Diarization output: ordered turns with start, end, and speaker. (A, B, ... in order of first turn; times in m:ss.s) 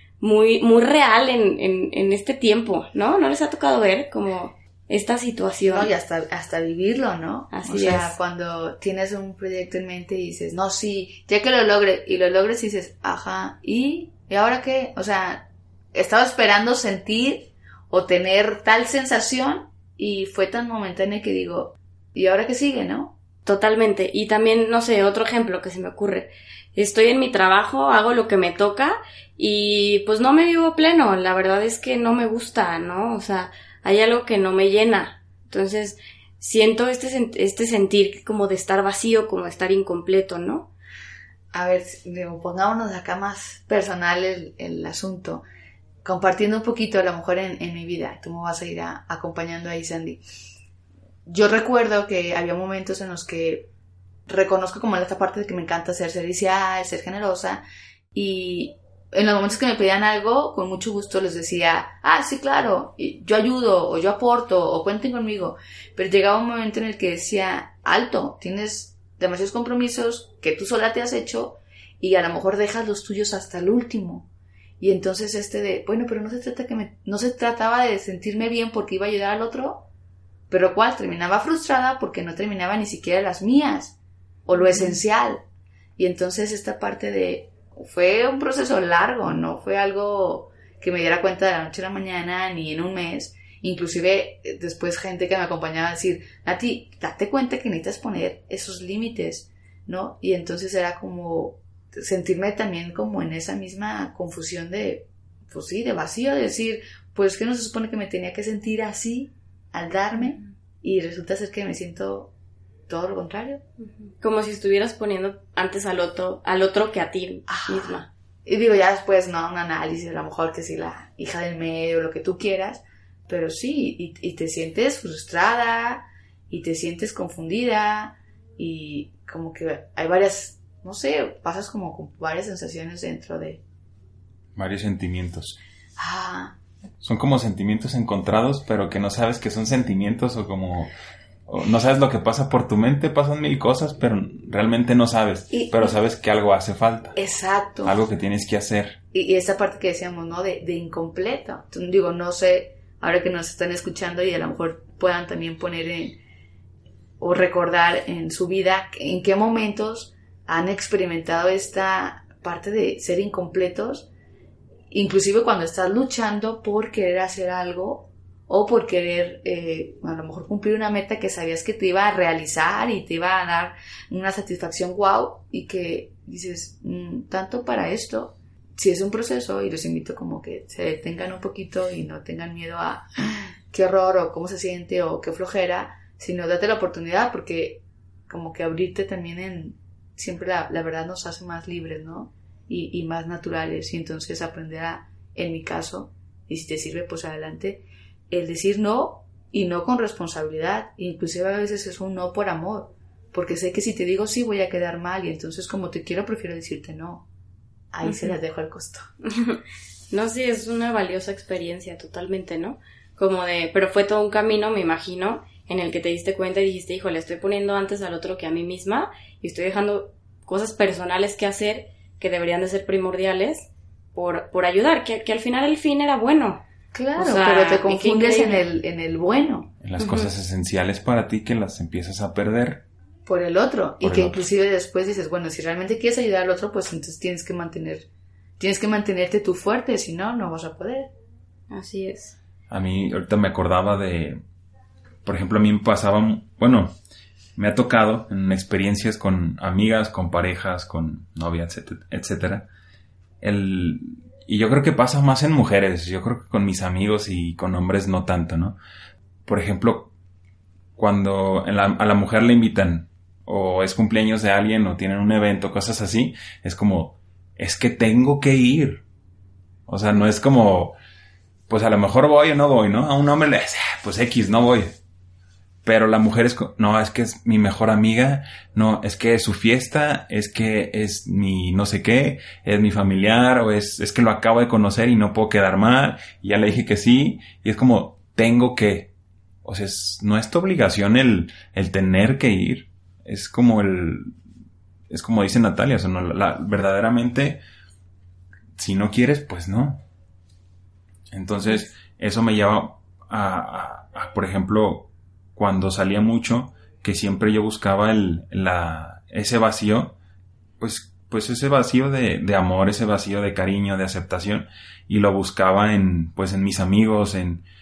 0:00.2-0:05.9 A
0:05.6-0:23.1 B
0:07.5-0:08.2 A
0:23.4-0:40.7 A
0:41.5-0:45.4 B
0:46.0-0:50.2 B
0:51.3-0:53.7 B
0:54.3-1:14.3 B
1:14.8-1:19.9 B
1:20.5-1:24.0 B
1:24.5-1:25.4 B
1:24.6-1:25.0 A
1:26.0-1:52.3 B
1:52.9-1:53.6 B
1:54.0-1:58.1 A
1:57.5-2:13.6 B
2:14.6-2:15.6 C
2:16.0-2:16.6 B
2:17.0-2:20.9 C
2:21.5-2:27.2 C
2:25.5-2:25.9 B
2:27.2-2:28.0 B
2:27.8-2:29.0 C
2:29.1-2:36.2 B
2:37.2-2:44.1 B
2:44.9-3:27.3 B
3:27.9-3:29.0 B
3:28.0-3:28.4 A
3:29.2-3:29.6 A
3:30.1-3:46.6 A
3:46.9-3:49.7 B
3:47.2-3:48.6 A
3:49.8-3:52.8 C
3:50.0-3:50.3 A
3:53.3-3:58.1 B
3:54.0-3:54.4 C
3:58.6-4:01.1 B
4:01.7-4:02.4 A
4:02.7-4:04.4 C
4:05.2-4:07.0 C
4:07.6-4:12.7 C
4:13.4-4:18.8 C
4:19.5-4:20.1 C
4:21.0-4:29.0 C
4:29.9-4:31.0 C
4:31.7-4:35.0 C
4:35.8-4:49.1 C
4:49.6-4:54.3 C
4:55.1-4:57.6 C
4:58.8-5:00.0 C
5:01.3-5:10.2 C
5:10.8-5:17.6 C